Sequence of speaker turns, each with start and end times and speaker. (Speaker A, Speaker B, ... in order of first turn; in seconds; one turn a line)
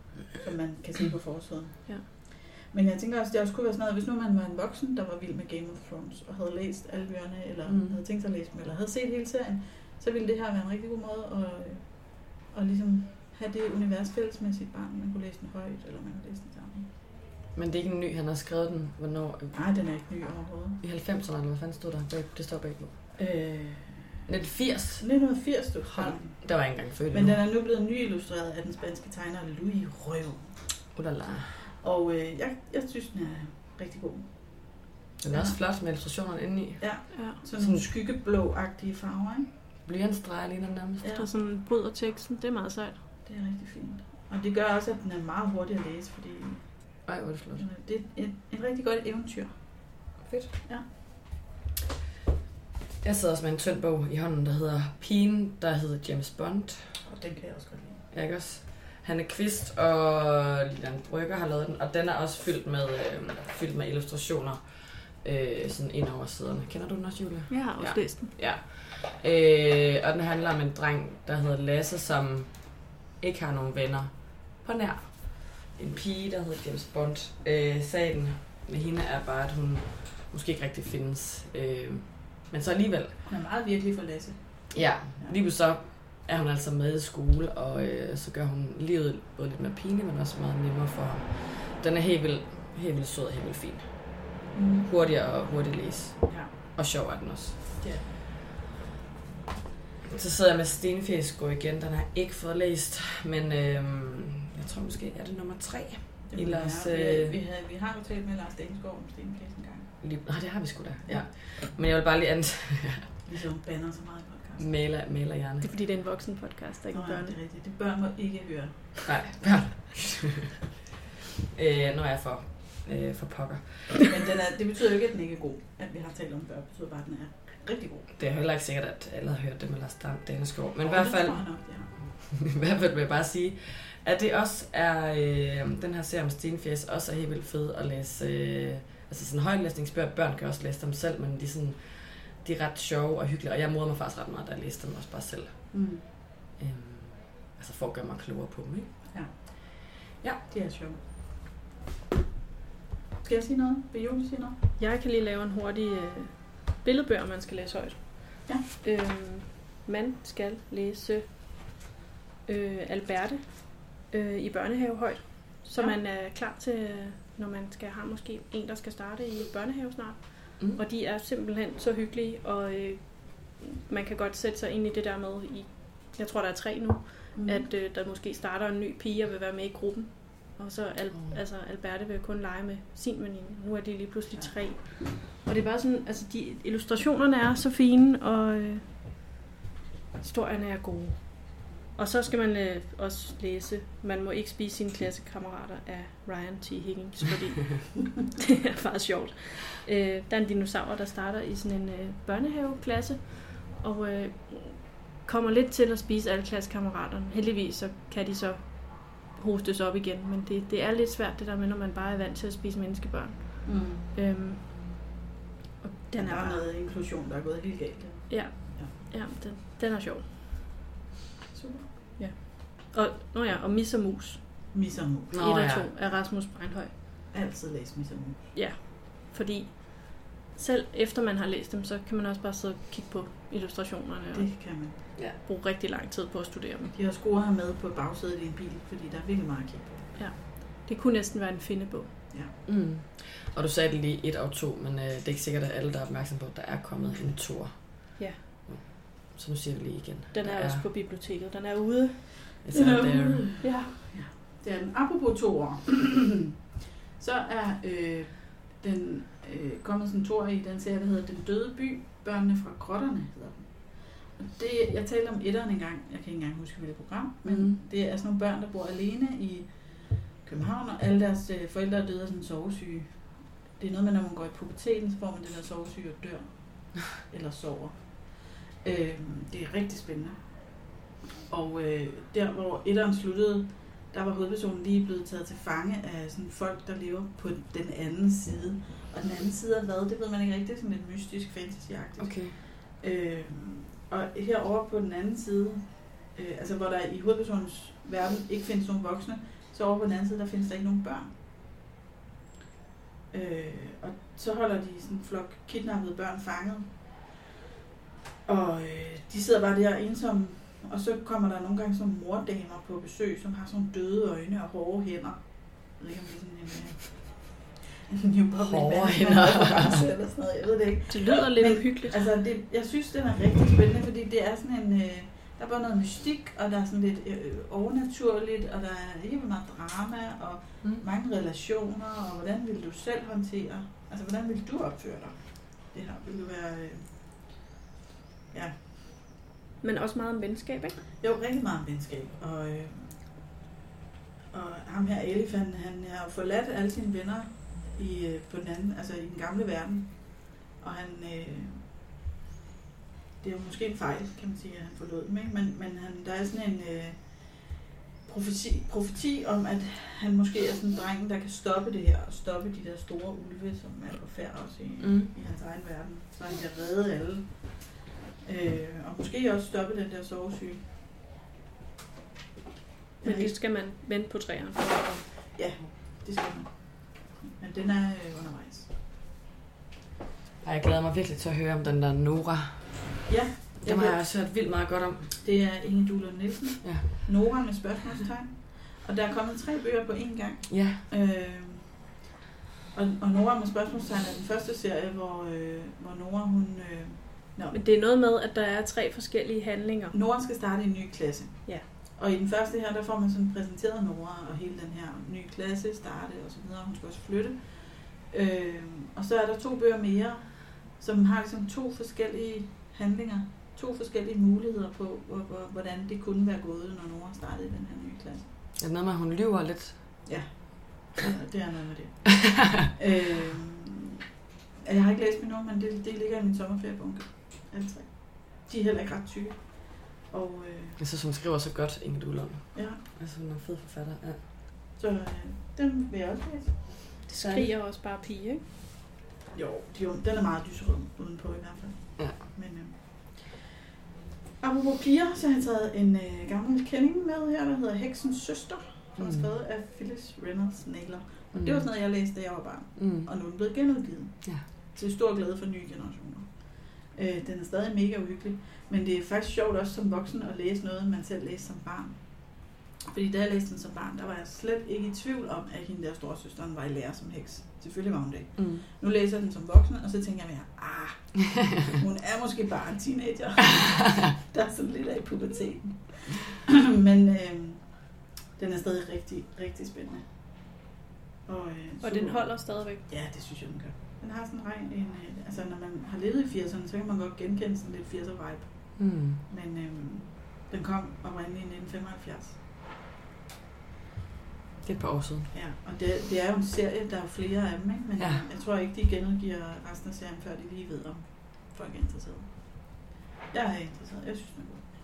Speaker A: 0.4-16.9
Speaker B: 7.7-8.0
Speaker B: 17.5-19.6
Speaker A: 19.5-20.8
Speaker B: 20.8-23.1
Speaker A: 23.2-24.3
Speaker B: 24.3-27.4
Speaker A: 25.0-30.7
Speaker B: 30.9-31.6
Speaker A: 31.8-35.6
Speaker B: 35.2-37.9
Speaker A: 36.8-39.5
Speaker C: 37.1-37.4
Speaker B: 39.9-41.0
Speaker A: 41.0-41.3
Speaker C: 41.1-43.0
Speaker A: 43.2-50.0
Speaker B: 47.1-47.6
Speaker B: 50.2-50.5
Speaker B: 53.0-57.0
Speaker A: 57.0-58.0
Speaker B: 58.1-83.2
Speaker C: 67.5-68.3
Speaker A: 83.2-85.4
Speaker B: 84.7-97.8
Speaker A: 94.5-94.9
Speaker A: 96.3-96.5
Speaker A: 97.8-98.1
Speaker B: 100.0-107.4
Speaker A: 106.3-110.0
Speaker B: 110.0-113.2
Speaker A: 113.2-114.7
Speaker B: 114.6-115.7
Speaker C: 115.6-117.4
Speaker A: 116.9-119.0
Speaker B: 119.0-120.6
Speaker B: 121.5-124.2
Speaker A: 124.1-128.1
Speaker B: 128.2-145.7
Speaker A: 130.8-131.9
Speaker A: 145.7-146.0
Speaker B: 146.6-149.5
Speaker A: 150.5-151.0
Speaker A: 153.2-154.6
Speaker C: 154.8-161.9
Speaker C: 162.5-189.0
Speaker A: 177.3-177.7
Speaker C: 190.2-215.0
Speaker A: 213.7-214.0
Speaker C: 215.8-216.7
Speaker A: 216.2-218.9
Speaker C: 218.3-220.3
Speaker A: 221.5-221.9
Speaker C: 222.2-226.9
Speaker A: 224.7-225.4
Speaker B: 225.3-225.9
Speaker A: 227.3-228.5
Speaker C: 228.5-236.9
Speaker A: 234.3-235.0
Speaker A: 236.9-240.1
Speaker C: 240.2-242.2
Speaker B: 242.7-250.9
Speaker C: 250.3-252.6
Speaker B: 252.6-253.6
Speaker A: 252.7-256.4
Speaker C: 253.6-254.1
Speaker A: 257.2-280.8
Speaker B: 267.4-267.8
Speaker A: 281.5-301.4
Speaker B: 292.2-292.6
Speaker A: 303.3-307.1
Speaker A: 308.5-337.3
Speaker B: 318.7-320.1
Speaker C: 321.1-322.3
Speaker A: 338.5-338.9
Speaker C: 339.8-341.1
Speaker A: 341.2-343.3
Speaker A: 344.5-351.9
Speaker A: 353.4-367.8
Speaker B: 365.0-365.3
Speaker A: 368.4-370.9
Speaker A: 373.2-373.6
Speaker C: 373.2-375.6
Speaker A: 375.5-378.9
Speaker B: 380.6-385.4
Speaker A: 383.3-384.2
Speaker A: 385.4-392.1
Speaker B: 386.8-387.2
Speaker B: 390.7-391.0
Speaker A: 392.9-397.8
Speaker C: 397.7-400.2
Speaker A: 400.1-418.5
Speaker B: 418.8-420.3
Speaker A: 420.2-424.0
Speaker A: 424.8-431.0
Speaker B: 431.0-434.4
Speaker A: 432.7-433.0
Speaker A: 435.0-437.2
Speaker C: 437.3-438.6
Speaker B: 437.4-437.7
Speaker A: 439.5-443.7
Speaker B: 442.2-442.4
Speaker A: 444.6-480.4
Speaker B: 449.2-449.4
Speaker B: 451.5-451.9
Speaker B: 453.0-453.3
Speaker B: 468.6-468.8
Speaker A: 481.5-492.6
Speaker C: 482.0-483.1
Speaker B: 489.0-489.4
Speaker B: 494.8-495.5
Speaker A: 495.5-504.9
Speaker B: 498.2-498.4